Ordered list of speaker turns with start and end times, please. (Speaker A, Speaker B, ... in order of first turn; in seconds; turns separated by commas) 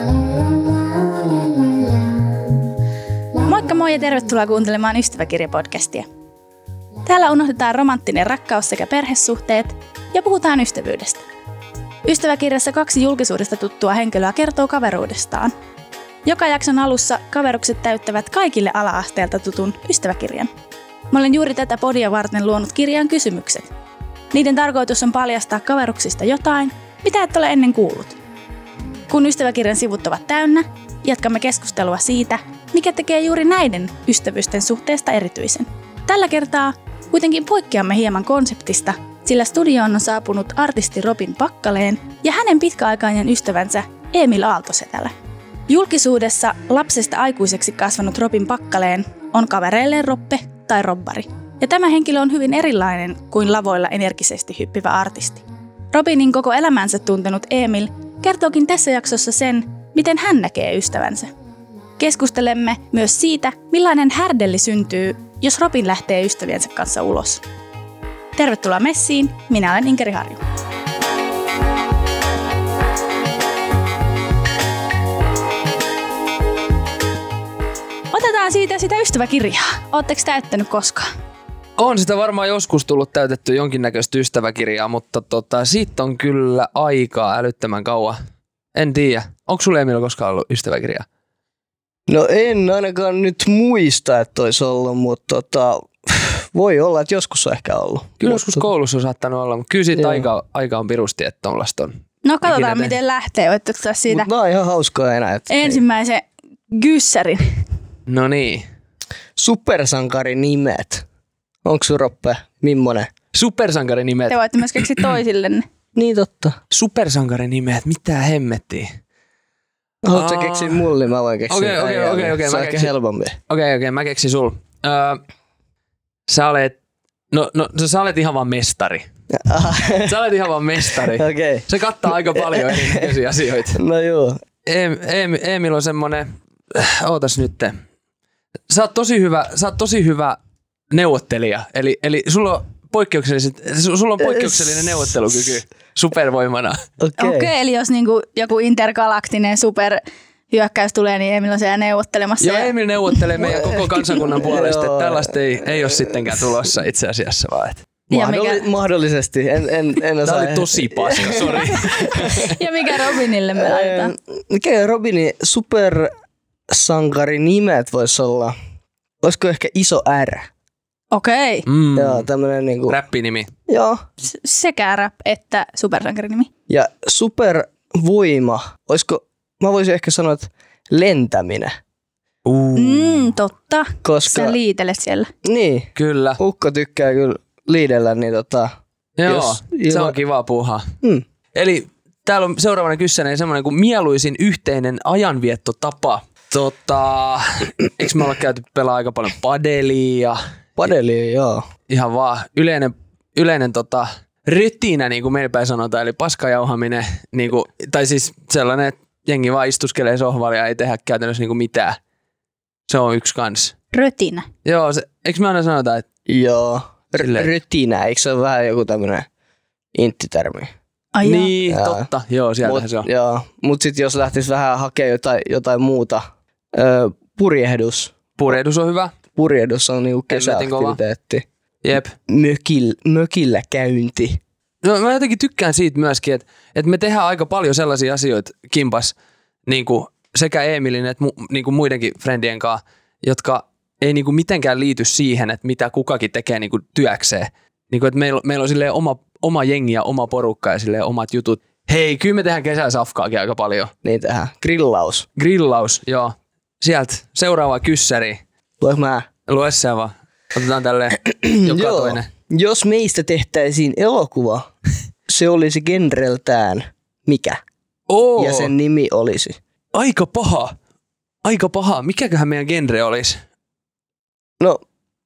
Speaker A: 3.4-6.1, Speaker A: 7.0-11.2, Speaker A: 12.0-15.5, Speaker A: 16.2-20.5, Speaker A: 21.1-23.7, Speaker A: 24.3-28.2, Speaker A: 29.1-45.1, Speaker A: 45.7-61.3, Speaker A: 62.0-67.4, Speaker A: 68.3-70.4, Speaker A: 78.1-81.1, Speaker B: 81.8-88.2, Speaker B: 88.7-91.1, Speaker C: 92.1-98.6, Speaker B: 98.2-102.9, Speaker C: 99.9-100.3, Speaker A: 102.2-104.3, Speaker C: 104.1-105.8, Speaker A: 105.5-107.6, Speaker B: 108.1-108.7, Speaker C: 109.4-111.0, Speaker C: 111.6-113.1, Speaker B: 113.3-114.8, Speaker A: 114.3-115.7, Speaker C: 115.9-116.6, Speaker B: 116.7-119.0, Speaker C: 120.0-123.4, Speaker B: 120.1-120.9, Speaker B: 121.5-122.9, Speaker B: 123.5-125.2, Speaker B: 126.3-126.8, Speaker B: 127.3-129.1, Speaker C: 129.3-130.2, Speaker B: 130.0-133.8, Speaker C: 130.9-133.1, Speaker C: 133.7-134.4, Speaker B: 134.6-137.8, Speaker B: 138.7-140.4, Speaker B: 140.9-146.8, Speaker C: 144.2-145.1, Speaker C: 147.0-147.5, Speaker A: 147.2-152.7, Speaker B: 152.4-157.8, Speaker C: 153.4-156.4, Speaker C: 158.1-162.5, Speaker A: 158.1-158.6, Speaker B: 160.2-162.6, Speaker A: 162.1-164.1, Speaker C: 163.5-166.1, Speaker C: 166.7-168.6, Speaker C: 169.2-170.5, Speaker A: 171.1-171.7, Speaker B: 171.7-172.3, Speaker C: 171.9-173.0, Speaker B: 172.9-173.5, Speaker C: 173.7-174.0, Speaker A: 174.2-176.5, Speaker C: 176.7-181.7, Speaker B: 182.4-183.3, Speaker A: 182.7-185.3, Speaker C: 184.0-184.6, Speaker C: 185.4-188.7, Speaker B: 185.9-186.4, Speaker B: 189.2-190.8, Speaker C: 189.3-190.1, Speaker B: 191.5-200.4, Speaker C: 200.8-201.7, Speaker B: 201.9-212.0, Speaker B: 212.9-213.8, Speaker A: 213.9-214.5, Speaker B: 214.6-216.1, Speaker C: 216.3-219.3, Speaker B: 217.2-217.5, Speaker C: 219.9-220.7, Speaker A: 221.1-221.5, Speaker B: 221.2-223.1, Speaker C: 221.7-222.1, Speaker C: 222.6-226.2, Speaker C: 226.7-228.2, Speaker B: 228.4-229.1, Speaker C: 229.3-231.4, Speaker B: 230.3-231.0, Speaker B: 231.8-232.1, Speaker C: 232.3-234.4, Speaker B: 234.8-239.1, Speaker B: 239.7-253.9, Speaker C: 254.0-255.2, Speaker B: 255.4-258.4, Speaker C: 258.8-259.3, Speaker B: 259.5-262.3, Speaker C: 261.2-264.7, Speaker C: 265.3-267.6, Speaker B: 268.1-268.7, Speaker C: 268.4-269.6, Speaker B: 269.9-270.7, Speaker B: 271.4-273.4